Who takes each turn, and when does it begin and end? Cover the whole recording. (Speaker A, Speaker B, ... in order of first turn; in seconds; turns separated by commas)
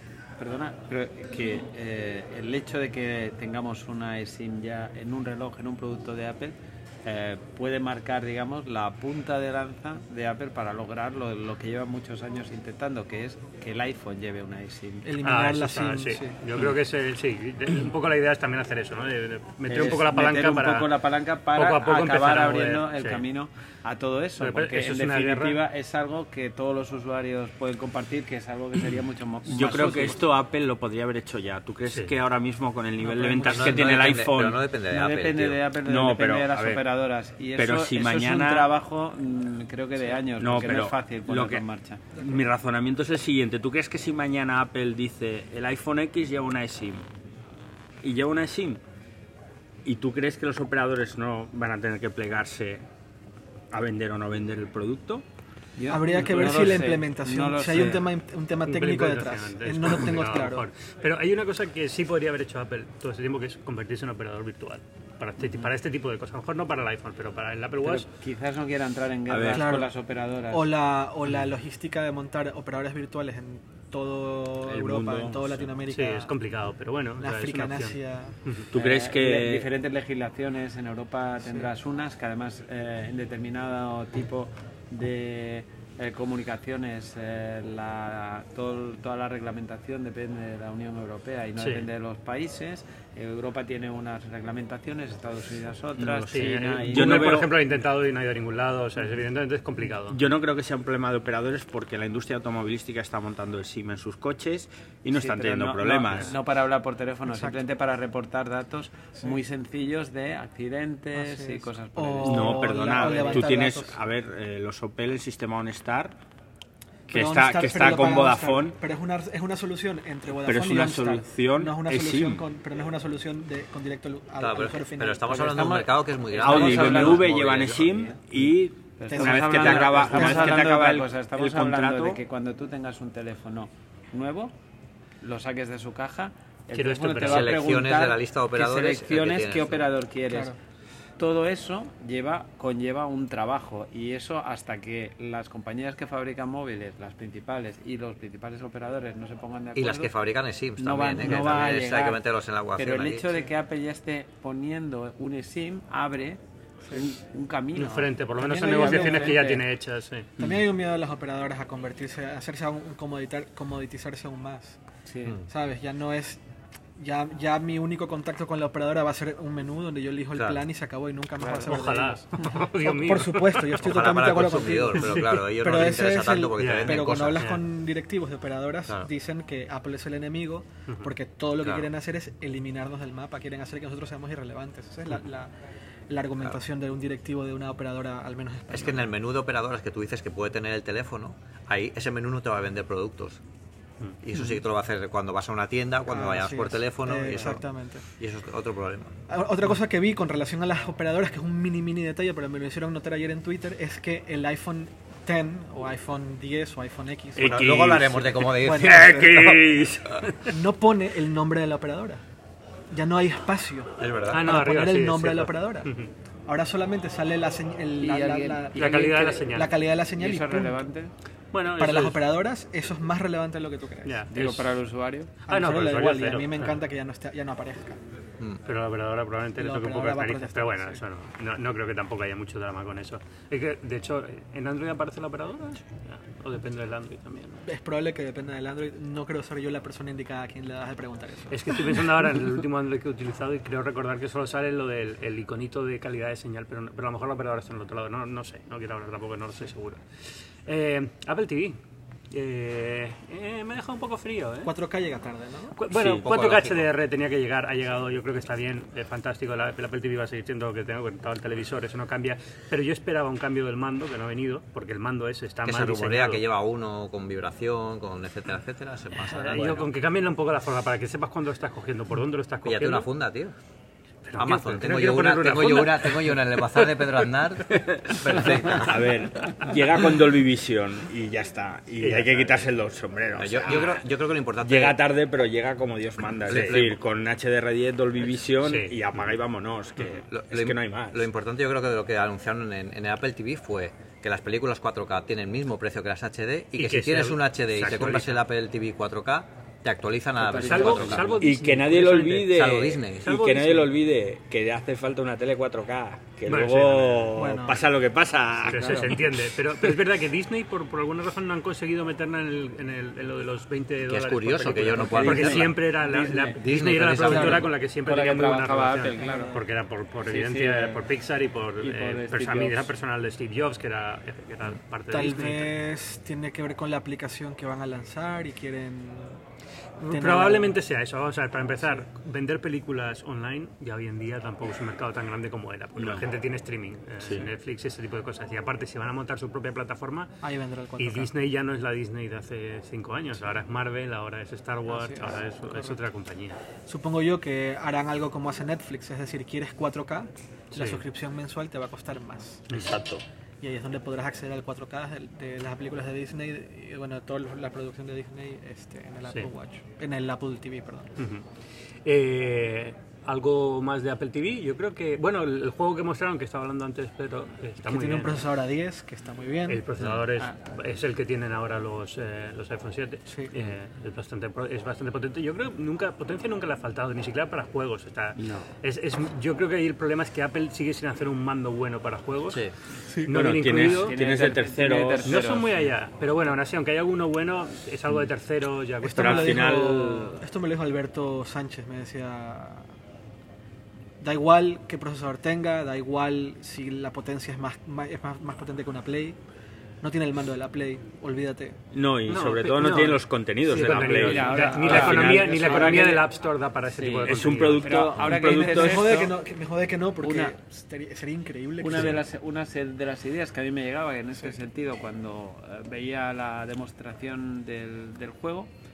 Speaker A: 0.4-15.1, Speaker B: 15.1-16.4, Speaker C: 15.2-21.0, Speaker D: 19.7-20.1, Speaker A: 19.7-30.3, Speaker C: 21.5-23.2, Speaker C: 24.4-25.6, Speaker D: 29.5-34.6, Speaker E: 33.4-35.6, Speaker A: 34.9-42.0, Speaker D: 35.9-36.9, Speaker D: 37.6-38.7, Speaker D: 40.4-47.1, Speaker D: 48.0-48.8, Speaker D: 49.9-52.8, Speaker D: 53.7-55.2, Speaker A: 55.8-58.1, Speaker B: 55.9-60.7, Speaker C: 58.6-68.1, Speaker A: 67.8-70.7, Speaker D: 69.3-69.6, Speaker B: 69.5-69.9, Speaker B: 70.5-76.3, Speaker D: 74.6-75.7, Speaker C: 75.9-78.7, Speaker B: 77.2-78.4, Speaker D: 78.7-79.7, Speaker A: 78.7-97.4, Speaker C: 91.6-91.8, Speaker C: 96.0-100.2, Speaker D: 96.8-97.6, Speaker D: 100.1-106.3, Speaker A: 105.1-113.5, Speaker B: 107.3-107.6, Speaker B: 111.2-114.0, Speaker D: 112.2-116.2, Speaker D: 117.1-118.8, Speaker B: 117.1-125.4, Speaker D: 120.4-122.4, Speaker E: 124.4-128.0, Speaker A: 125.3-134.5, Speaker D: 126.3-132.2, Speaker B: 129.1-130.7, Speaker A: 135.2-140.5, Speaker C: 136.7-137.7, Speaker E: 137.2-139.9, Speaker B: 140.3-140.6, Speaker A: 141.2-150.1, Speaker E: 149.8-153.3, Speaker A: 150.8-152.2, Speaker A: 152.8-156.4, Speaker A: 156.9-159.7, Speaker C: 157.8-160.3, Speaker B: 158.4-159.4, Speaker B: 160.4-164.8, Speaker A: 165.1-165.4, Speaker B: 165.5-166.4, Speaker B: 167.0-185.5, Speaker E: 170.3-170.6, Speaker A: 171.4-171.8, Speaker C: 171.7-174.0, Speaker E: 173.8-177.5, Speaker C: 175.0-175.4, Speaker C: 176.6-177.6, Speaker E: 181.6-181.9, Speaker B: 186.1-189.2, Speaker E: 188.7-193.4, Speaker E: 194.2-197.6, Speaker B: 196.1-198.1, Speaker E: 198.2-199.1, Speaker B: 199.3-207.6, Speaker D: 207.4-210.3, Speaker E: 207.4-209.4, Speaker B: 208.3-209.6, Speaker B: 210.4-212.2, Speaker B: 212.9-215.9, Speaker E: 214.0-214.4, Speaker C: 214.3-216.1, Speaker B: 216.5-220.8, Speaker A: 218.0-219.5, Speaker C: 218.8-219.8, Speaker A: 220.2-221.1, Speaker C: 221.5-222.2, Speaker B: 221.7-224.2, Speaker C: 224.1-224.7, Speaker A: 224.3-225.3, Speaker B: 225.5-228.0, Speaker C: 225.5-226.8, Speaker C: 228.7-237.6, Speaker B: 229.6-231.0, Speaker B: 237.6-241.8, Speaker C: 241.5-250.0, Speaker C: 250.7-251.8, Speaker C: 252.3-254.7, Speaker B: 254.6-255.8, Speaker C: 255.8-266.4, Speaker D: 255.9-256.3, Speaker E: 256.1-256.9, Speaker E: 265.6-269.9, Speaker C: 269.3-273.1, Speaker E: 272.6-273.5, Speaker C: 274.3-276.4, Speaker E: 274.4-279.1, Speaker D: 277.7-284.0, Speaker C: 282.0-282.6, Speaker E: 283.4-285.0, Speaker D: 284.6-291.3, Speaker E: 286.5-287.0, Speaker C: 288.6-289.4, Speaker E: 290.1-301.4, Speaker C: 296.8-298.4, Speaker A: 300.4-301.3, Speaker C: 300.6-302.6, Speaker D: 301.4-309.4, Speaker E: 302.5-303.3, Speaker C: 303.2-303.9, Speaker C: 306.5-307.4, Speaker B: 307.4-307.8, Speaker A: 308.6-309.1, Speaker C: 308.7-325.7, Speaker E: 314.1-315.8, Speaker A: 315.1-316.6, Speaker E: 316.6-317.7, Speaker A: 317.2-319.6, Speaker B: 319.2-319.6, Speaker A: 320.3-321.0, Speaker A: 321.8-322.9, Speaker B: 325.1-329.4, Speaker C: 330.0-340.3, Speaker B: 330.1-330.7, Speaker D: 336.0-336.3, Speaker D: 337.2-337.5, Speaker B: 340.4-341.3, Speaker C: 341.0-346.6, Speaker B: 344.9-346.0, Speaker B: 346.9-352.7, Speaker C: 350.7-351.0, Speaker C: 352.7-353.0, Speaker B: 353.6-361.1, Speaker C: 361.2-361.4, Speaker C: 362.1-368.5, Speaker B: 367.9-369.9, Speaker C: 369.7-382.7, Speaker D: 378.4-378.6, Speaker C: 383.2-384.1, Speaker D: 383.3-385.5, Speaker A: 383.9-385.8, Speaker C: 385.2-390.0, Speaker B: 389.0-392.9, Speaker D: 389.1-390.4, Speaker B: 394.2-399.4, Speaker B: 400.0-401.8, Speaker D: 401.9-406.2, Speaker C: 402.3-408.0, Speaker A: 404.0-406.2, Speaker A: 407.0-409.3, Speaker D: 407.2-409.2, Speaker B: 408.3-412.2, Speaker A: 410.2-410.6, Speaker A: 411.8-418.7